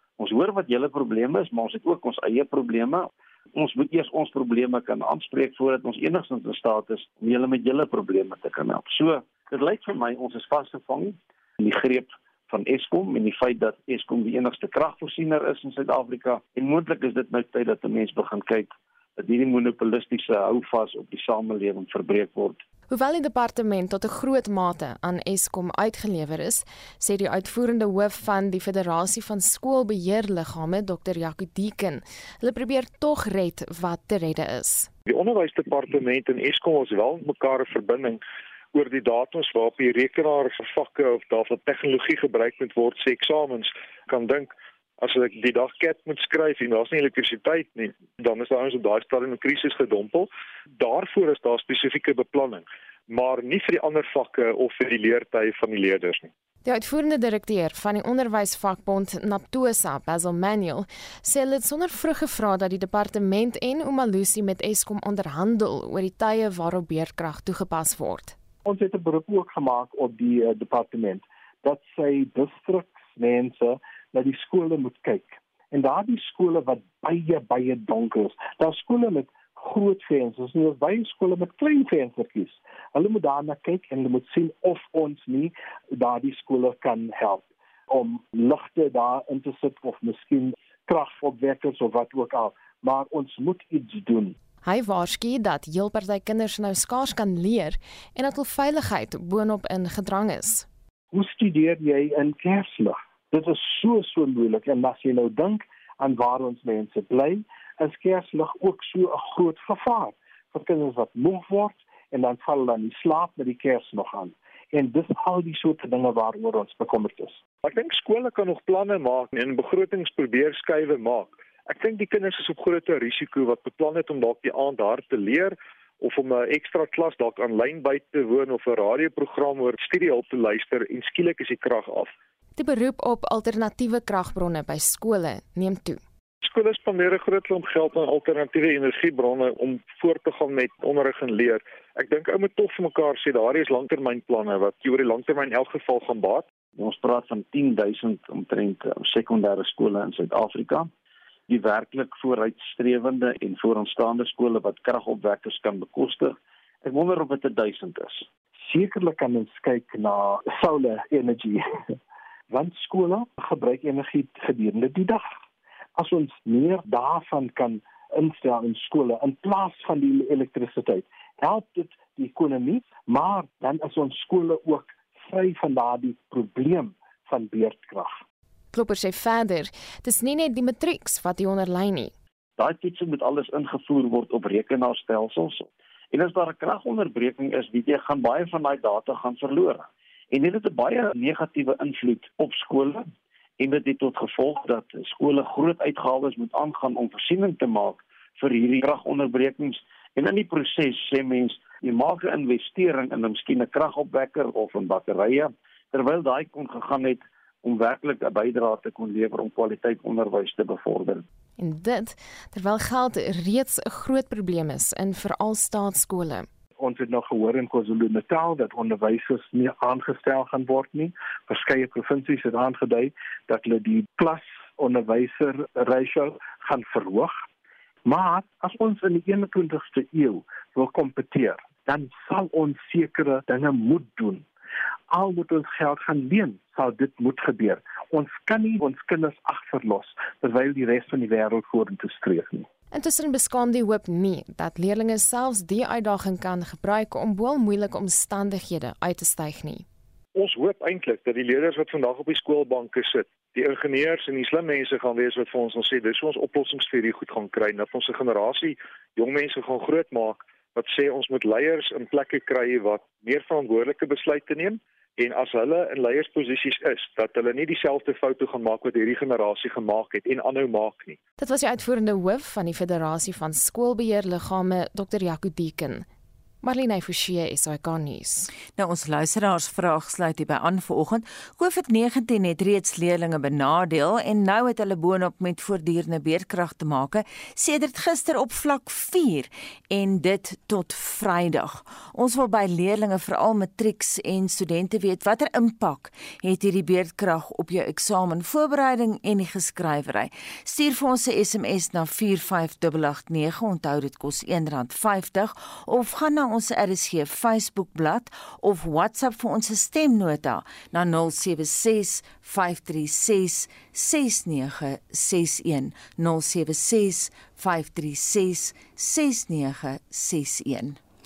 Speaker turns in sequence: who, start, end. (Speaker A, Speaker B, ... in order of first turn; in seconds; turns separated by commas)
Speaker A: 0.2-22.6, Speaker B: 22.9-34.9, Speaker C: 35.1-38.2, Speaker C: 38.7-56.3, Speaker B: 56.6-68.3, Speaker D: 68.7-94.4, Speaker B: 94.6-100.7, Speaker D: 101.1-117.4, Speaker C: 117.6-132.1, Speaker B: 132.6-136.0, Speaker C: 136.4-146.5, Speaker A: 146.8-150.9, Speaker A: 151.5-158.3, Speaker D: 158.6-161.6, Speaker D: 162.5-165.3, Speaker D: 166.0-178.2, Speaker B: 178.7-182.1, Speaker A: 182.6-193.1, Speaker A: 193.6-211.2, Speaker B: 211.6-216.5, Speaker D: 216.8-227.4, Speaker D: 228.1-234.5, Speaker D: 235.1-242.7, Speaker B: 242.9-249.9, Speaker C: 250.3-271.2, Speaker B: 271.4-276.1, Speaker B: 276.6-278.5, Speaker E: 278.8-321.0